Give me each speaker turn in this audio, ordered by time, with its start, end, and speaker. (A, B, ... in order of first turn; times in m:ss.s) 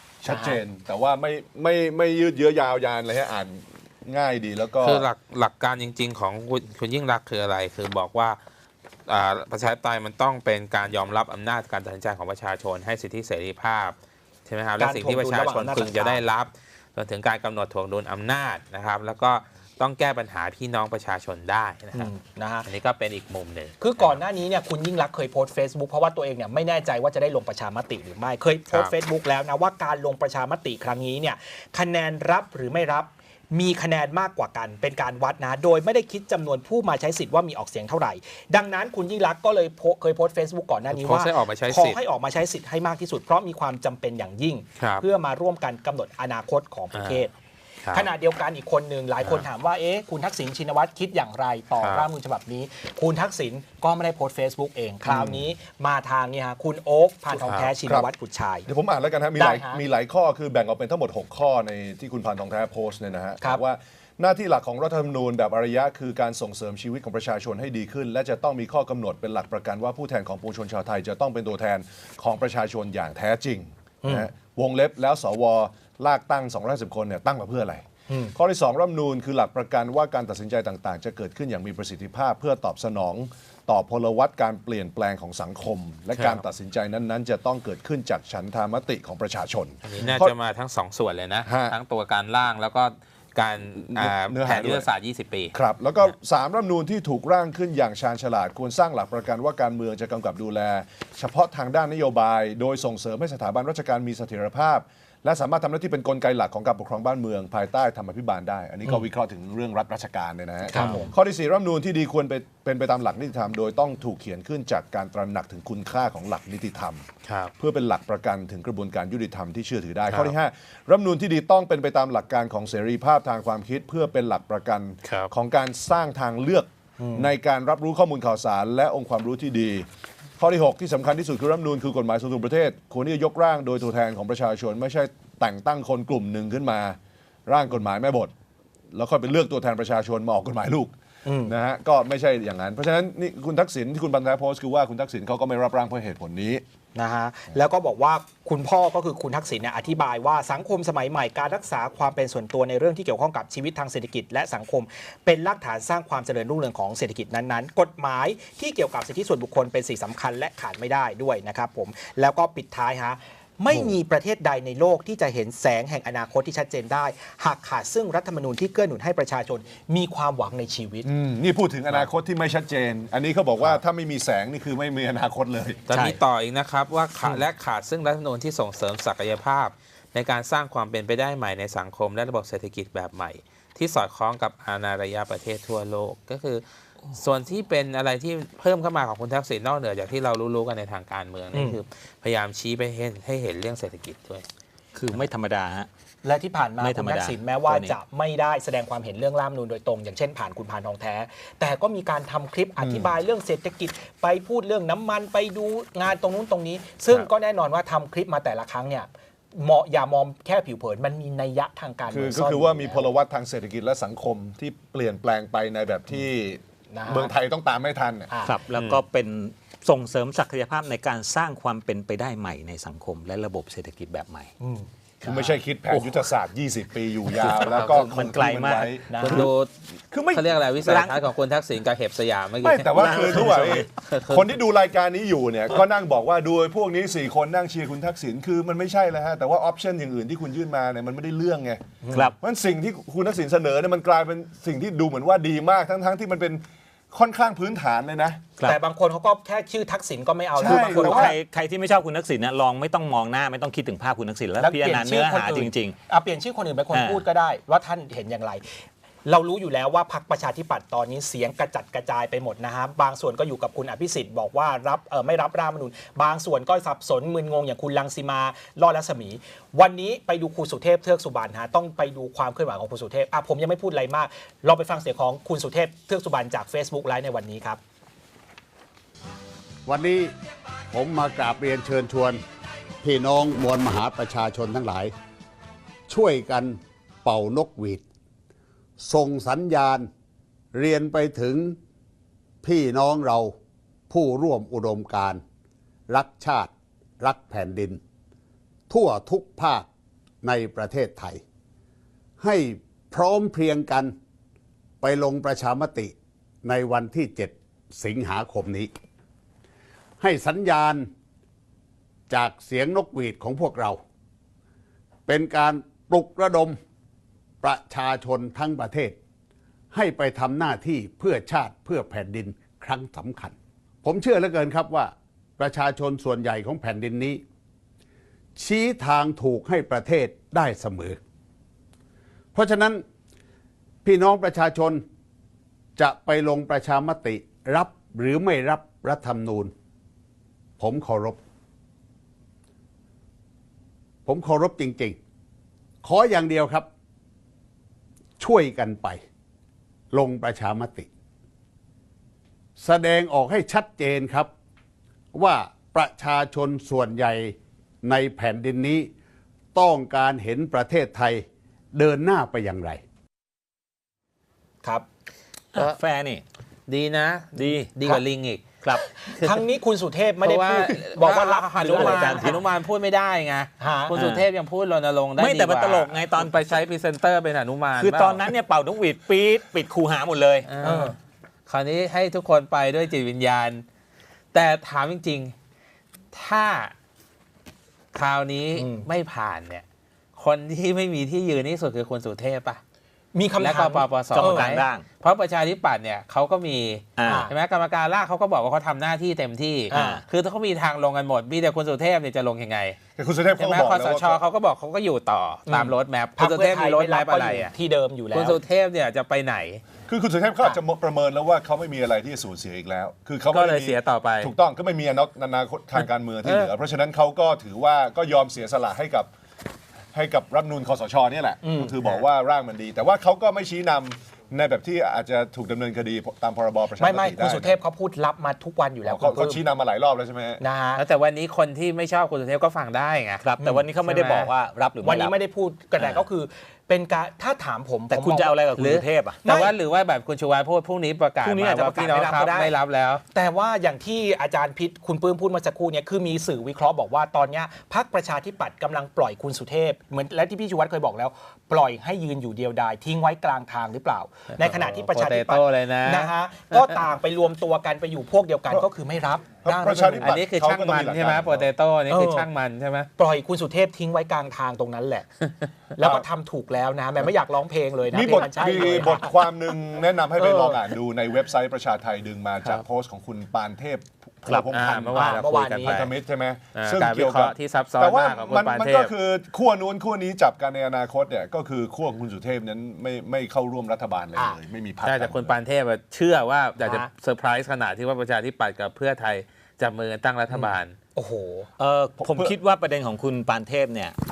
0:00.2-0:05.1 A
0:00.3-0:00.6 B
0:04.8-0:08.4 C
0:09.1-0:22.1 C
0:14.8-0:16.2 B
0:21.9-0:22.7 B
0:22.6-0:24.2 C
0:23.8-0:47.4 B
0:40.9-0:42.0 C
0:44.8-0:45.0 C
0:46.9-0:47.2 C
0:47.9-0:58.7 B
0:51.8-0:52.1 C
0:55.1-0:55.4 A
0:57.3-0:57.7 C
0:58.7-1:30.4 A
0:59.4-0:59.8 B
1:14.0-1:14.3 B
1:18.1-1:18.4 B
1:26.2-1:26.4 C
1:29.8-1:35.6 C
1:31.4-1:31.8 A
1:33.9-1:34.9 A
1:35.5-1:57.1 A
1:50.7-1:51.1 B
1:50.7-1:51.0 C
1:57.2-1:57.5 C
1:57.6-2:09.9 A
2:00.1-2:00.4 C
2:07.0-2:07.3 B
2:10.4-2:18.3 A
2:18.9-2:20.9 A
2:21.2-2:21.5 B
2:21.4-2:26.6 A
2:27.0-2:51.1 B
2:51.0-2:55.9 A
2:55.9-3:14.5 C
2:55.9-2:56.2 D
3:11.5-3:11.8 B
3:15.0-3:15.9 D
3:16.2-3:33.0 B
3:16.8-3:18.0 D
3:22.8-3:23.1 A
3:32.1-3:38.3 A
3:36.9-3:37.3 B
3:38.3-3:38.6 B
3:38.4-3:44.5 D
3:38.7-3:39.0 C
3:44.6-3:45.5 B
3:45.2-3:49.5 A
3:47.4-3:49.0 D
3:47.6-3:48.0 C
3:49.1-3:49.5 B
3:49.2-3:49.7 C
3:50.1-3:50.4 A
3:50.3-3:54.4 C
3:50.8-3:51.2 D
3:52.6-4:01.8 A
3:53.0-3:53.9 D
4:02.4-4:08.4 A
4:08.6-4:11.4 B
4:10.6-4:11.4 A
4:10.6-4:16.0 D
4:14.6-4:18.6 B
4:16.9-4:17.2 D
4:19.2-4:37.8 B
4:39.9-4:40.3 E
4:40.9-4:42.4 E
4:43.0-4:45.1 E
4:46.1-4:48.0 E
4:49.0-4:50.1 E
4:50.7-4:51.8 E
4:52.6-4:53.5 E
4:54.1-4:55.4 E
4:56.1-4:58.0 E
4:58.9-4:59.9 E
5:00.4-5:01.4 E
5:02.4-5:04.1 E
5:05.0-5:08.9 E
5:10.2-5:11.1 E
5:12.3-5:14.0 E
5:15.3-5:16.8 E
5:17.6-5:19.2 E
5:19.9-5:27.4 E
5:28.6-5:31.2 E
5:32.5-5:33.0 E
5:34.0-5:35.0 E
5:36.0-5:39.7 E
5:40.8-5:41.4 E
5:44.3-5:45.2 E
5:46.0-5:46.9 E
5:48.4-5:49.2 E
5:50.1-5:51.1 E
5:52.8-5:54.5 E
5:55.3-5:59.1 E
5:59.7-6:03.0 E
6:05.7-6:06.4 D
6:06.9-6:08.7 C
6:07.6-6:08.2 D
6:09.0-6:12.6 B
6:09.2-6:09.6 C
6:10.4-6:18.5 C
6:11.9-6:12.6 D
6:13.8-6:14.2 B
6:14.1-6:14.5 D
6:15.4-6:16.6 D
6:18.0-6:20.7 D
6:20.7-6:21.2 C
6:20.8-6:21.2 B
6:21.7-6:23.8 C
6:24.5-6:25.6 C
6:26.3-6:26.9 C
6:28.1-6:29.8 C
6:28.8-6:29.1 B
6:30.4-6:32.8 C
6:33.3-6:34.8 B
6:33.6-6:43.0 C
6:34.3-6:35.1 D
6:37.2-6:37.5 D
6:37.2-6:37.5 B
6:39.9-6:40.2 B
6:39.9-6:40.2 D
6:43.2-6:44.4 A
6:43.6-6:47.7 C
6:45.7-6:48.6 B
6:48.3-6:49.8 C
6:50.1-6:59.3 A
6:53.5-6:54.5 C
6:56.0-6:56.7 C
7:00.1-7:07.8 A
7:01.6-7:02.0 B
7:07.0-7:09.6 B
7:09.0-7:10.6 A
7:10.6-7:11.0 B
7:11.0-7:13.5 C
7:13.4-7:15.4 D
7:13.6-7:13.9 B
7:14.0-7:14.5 C
7:15.0-7:18.6 B
7:16.0-7:16.2 D
7:18.1-7:19.4 D
7:18.8-7:23.2 C
7:19.4-7:19.7 B
7:21.4-7:22.7 D
7:23.3-7:40.3 B
7:34.6-7:36.9 C
7:39.6-7:41.7 A
7:40.2-7:43.1 C
7:42.1-7:42.5 B
7:43.2-7:45.3 B
7:46.0-7:49.4 B
7:46.0-7:46.2 A
7:48.1-8:05.6 A
7:50.4-7:50.8 B
7:54.5-7:56.0 B
7:54.7-7:56.1 C
7:56.8-7:59.1 C
8:05.0-8:11.0 C
8:06.8-8:07.1 B
8:10.5-8:11.7 B
8:11.8-8:14.2 D
8:12.2-8:12.5 A